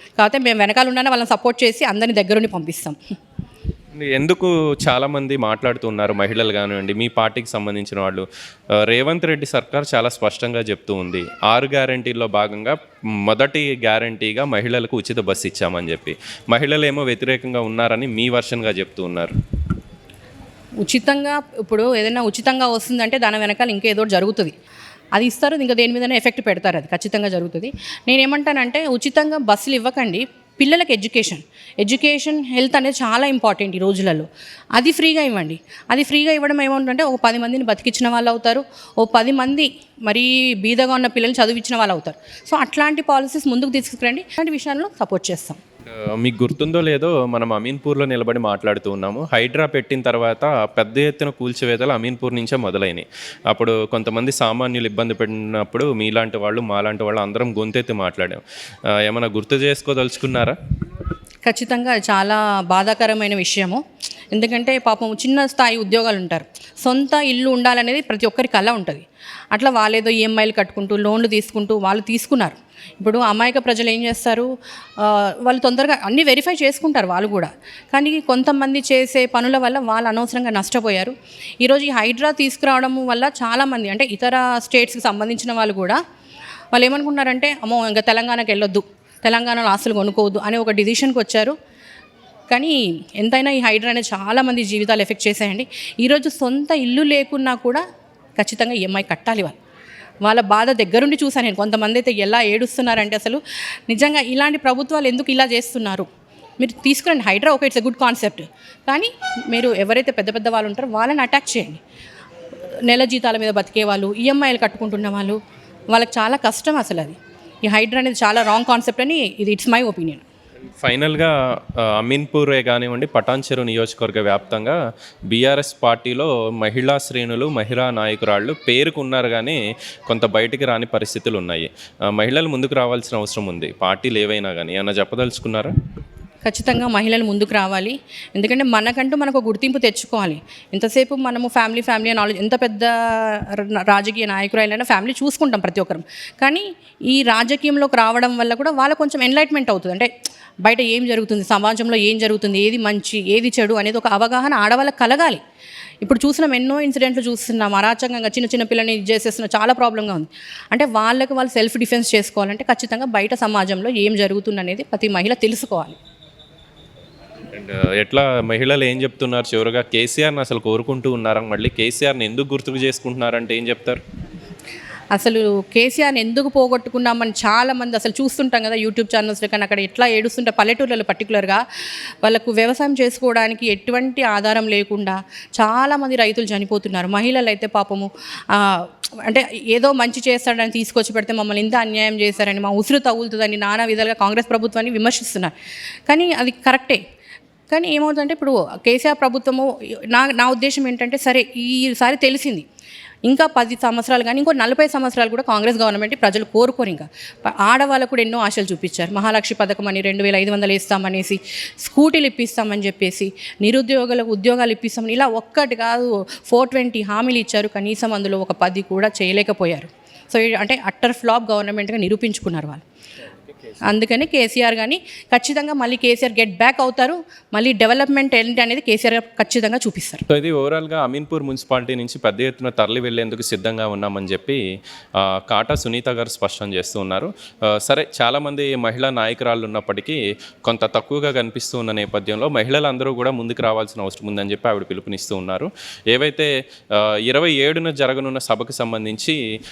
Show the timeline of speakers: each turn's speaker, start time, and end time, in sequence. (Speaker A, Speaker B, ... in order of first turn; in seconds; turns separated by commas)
Speaker A: 0.2-3.0, Speaker B: 3.9-8.3, Speaker B: 8.8-19.4, Speaker A: 20.8-24.5, Speaker A: 25.1-45.6, Speaker B: 46.0-60.6, Speaker A: 61.5-63.8, Speaker A: 64.3-86.0, Speaker A: 86.7-91.5, Speaker A: 92.5-97.8, Speaker A: 98.4-99.6, Speaker A: 100.2-106.1, Speaker A: 106.6-111.8, Speaker A: 112.9-115.4, Speaker A: 115.9-120.2, Speaker B: 120.7-124.8, Speaker B: 125.3-135.7, Speaker A: 136.4-150.1, Speaker A: 150.6-155.4, Speaker A: 156.0-166.0, Speaker B: 167.5-174.0, Speaker A: 175.2-181.6, Speaker A: 182.2-195.5, Speaker A: 196.1-197.0, Speaker A: 197.7-202.6, Speaker A: 203.3-207.1, Speaker A: 207.6-222.8, Speaker A: 223.9-230.2, Speaker B: 230.3-234.6, Speaker B: 235.2-249.4